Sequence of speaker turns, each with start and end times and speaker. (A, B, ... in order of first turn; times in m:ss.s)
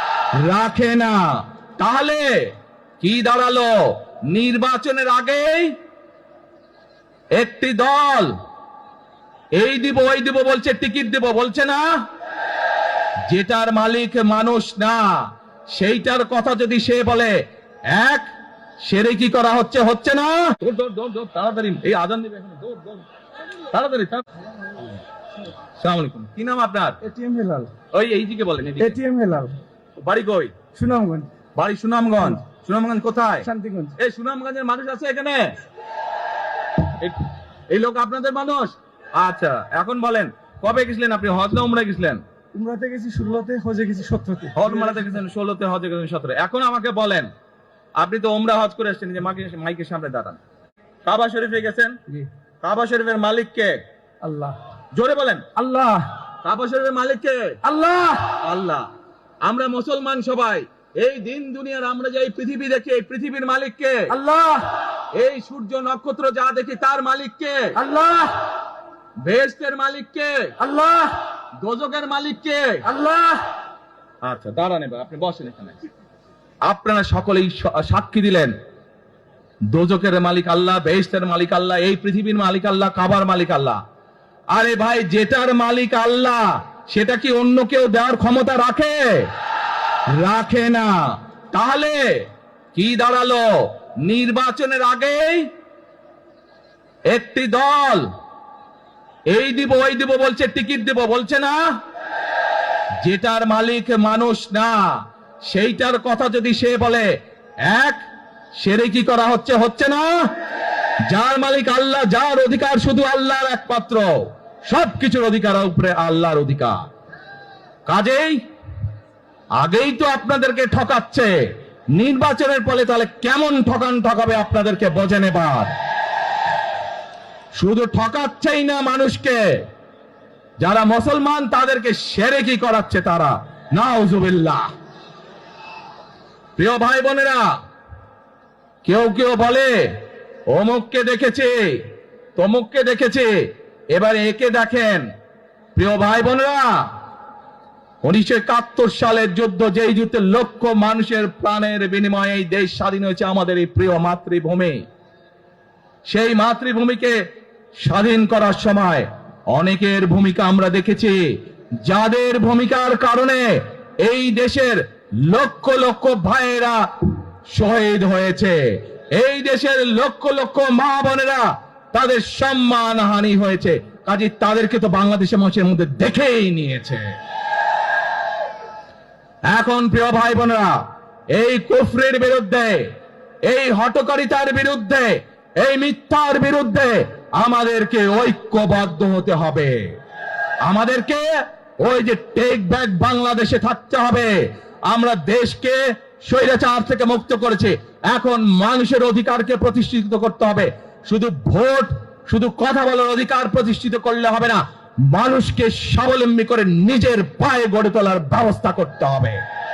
0:00.4-0:02.3 A
0:03.0-0:05.7 A
0:07.4-0:08.3 A
0:09.6-0:11.9 A
0:13.3-0:17.4 A
0:17.9-0:18.3 A
0:18.8-0:23.0 A
0:23.7-0:24.2 A
0:25.8-0:27.0 A
0:27.0-0:27.7 B
0:27.9-0:29.0 A
0:28.8-0:29.6 B
0:30.0-0:30.6 A
0:30.7-0:31.3 B
0:31.6-0:35.5 A
0:33.4-0:34.0 B
0:36.8-0:42.2 A
0:42.5-0:45.2 B
0:44.6-0:47.3 A
0:48.0-0:50.4 A
0:51.1-0:52.0 A
0:52.6-0:53.8 A
0:54.2-0:54.6 B
0:55.0-0:55.5 A
0:55.6-0:56.1 B
0:56.4-0:57.6 A
0:57.6-0:58.3 B
0:58.3-0:58.9 A
0:59.4-1:04.1 A
1:04.1-1:04.7 B
1:05.2-1:07.8 A
1:07.8-1:08.4 B
1:09.2-1:10.6 A
1:10.6-1:11.2 B
1:11.6-1:12.9 A
1:12.9-1:13.4 B
1:14.2-1:15.8 A
1:16.6-1:18.6 A
1:19.7-1:23.8 A
1:24.5-1:29.3 A
1:30.1-1:32.2 A
1:32.8-1:33.5 A
1:34.0-1:35.5 A
1:37.1-1:38.1 A
1:39.3-1:41.6 A
1:43.0-1:44.9 A
1:45.5-1:47.1 A
1:47.6-1:48.0 A
1:48.6-1:50.1 A
1:51.1-1:54.1 A
1:54.7-1:56.8 A
1:57.9-1:58.4 A
1:59.6-2:01.4 A
2:02.0-2:05.7 A
2:07.6-2:09.4 A
2:10.6-2:14.7 A
2:16.6-2:17.5 A
2:18.8-2:25.1 A
2:25.8-2:26.8 A
2:28.0-2:34.8 A
2:36.1-2:37.2 A
2:37.8-2:41.2 A
2:41.8-2:46.8 A
2:47.5-2:57.1 A
2:59.5-3:00.8 A
3:01.3-3:02.9 A
3:03.4-3:09.9 A
3:10.6-3:11.3 A
3:11.8-3:29.4 A